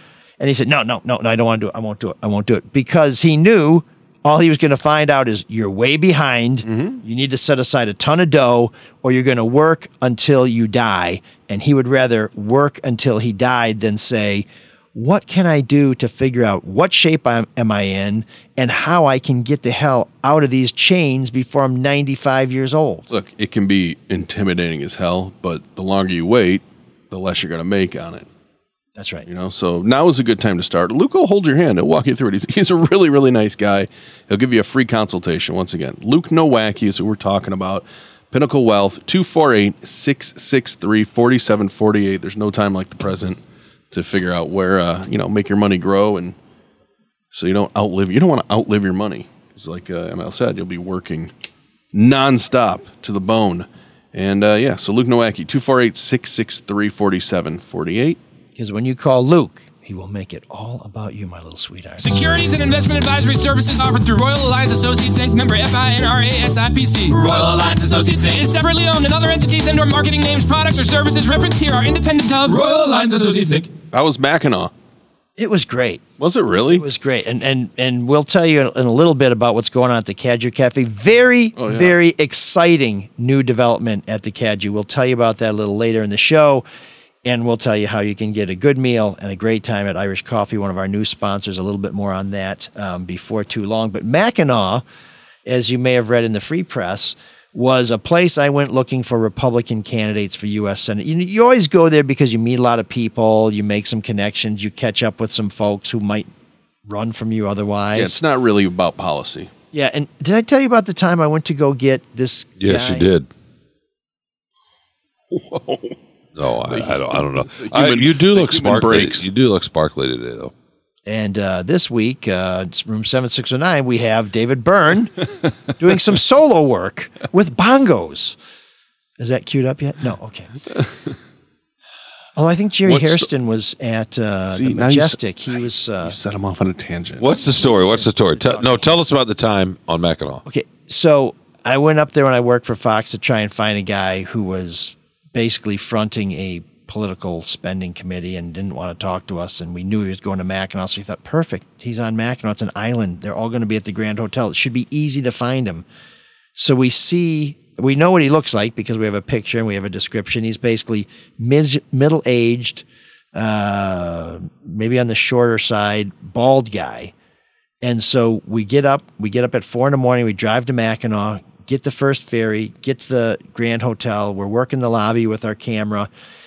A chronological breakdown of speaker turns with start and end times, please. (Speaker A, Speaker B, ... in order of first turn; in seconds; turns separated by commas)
Speaker A: 0.4-23.1, Speaker B: 6.7-7.0, Speaker B: 23.1-28.3, Speaker A: 29.0-29.3, Speaker B: 29.3-43.4, Speaker B: 43.9-46.4, Speaker B: 47.3-51.3, Speaker B: 51.9-58.2, Speaker A: 58.6-62.0, Speaker C: 62.0-73.7, Speaker B: 73.9-74.7, Speaker A: 75.4-76.0, Speaker B: 76.2-76.8, Speaker A: 76.7-86.7, Speaker B: 81.6-82.0, Speaker A: 87.2-94.8, Speaker A: 95.5-106.3, Speaker A: 106.9-108.2, Speaker B: 108.0-109.5, Speaker A: 109.7-113.1, Speaker D: 112.6-113.3, Speaker B: 115.3-116.0, Speaker D: 116.3-120.5, Speaker B: 116.7-119.3, Speaker A: 121.1-125.2, Speaker A: 125.8-128.4, Speaker A: 129.2-130.5, Speaker A: 132.4-136.2, Speaker B: 132.8-133.3, Speaker B: 134.5-135.2, Speaker B: 136.0-137.3, Speaker D: 137.2-140.4, Speaker A: 137.5-139.0, Speaker A: 140.5-155.8, Speaker A: 156.6-167.1, Speaker A: 167.8-176.1